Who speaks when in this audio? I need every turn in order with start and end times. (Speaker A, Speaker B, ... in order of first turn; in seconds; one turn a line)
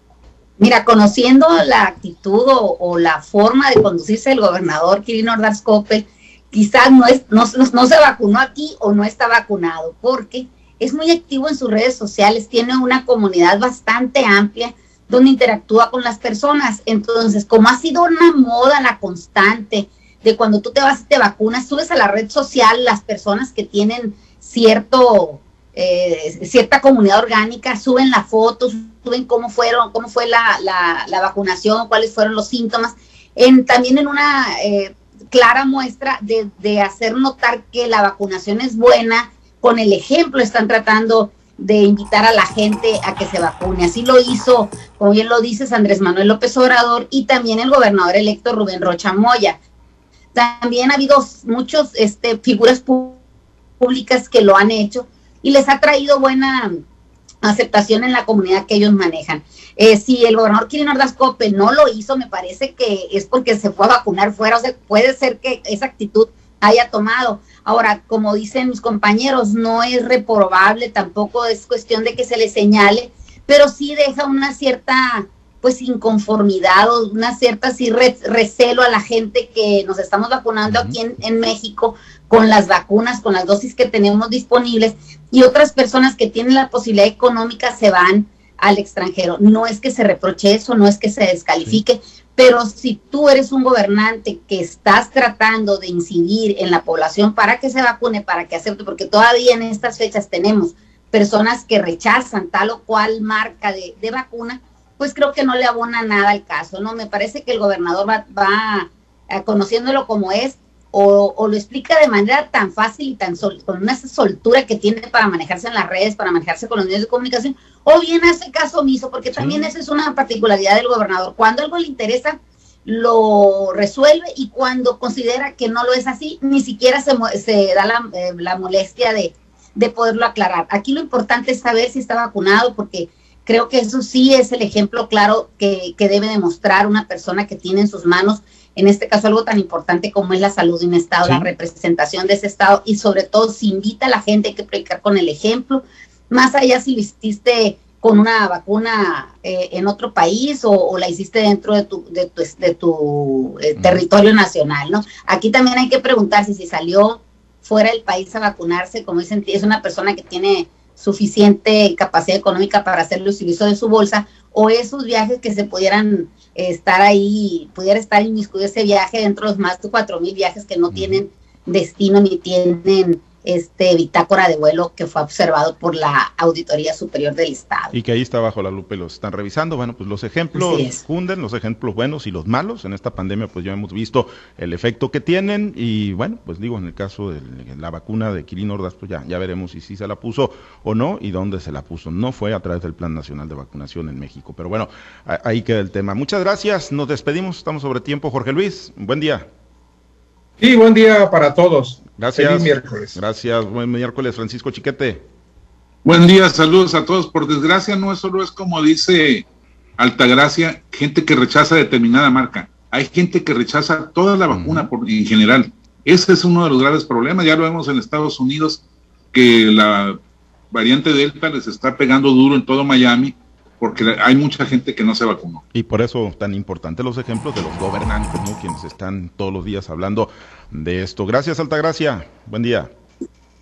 Speaker A: 0.6-49.6
Speaker A: 50.3-53.2
Speaker A: 53.8-56.8
Speaker A: 57.4-177.9
Speaker B: 80.7-81.0
Speaker B: 119.3-119.7
Speaker B: 141.2-141.5
Speaker B: 170.9-171.2
Speaker B: 177.9-199.5
Speaker A: 180.5-181.0
Speaker C: 200.6-203.2
Speaker B: 202.2-205.2
Speaker D: 206.0-209.4
Speaker D: 210.0-218.8
Speaker B: 214.5-214.9
Speaker D: 219.3-220.2
Speaker D: 220.7-225.6
Speaker B: 225.7-232.9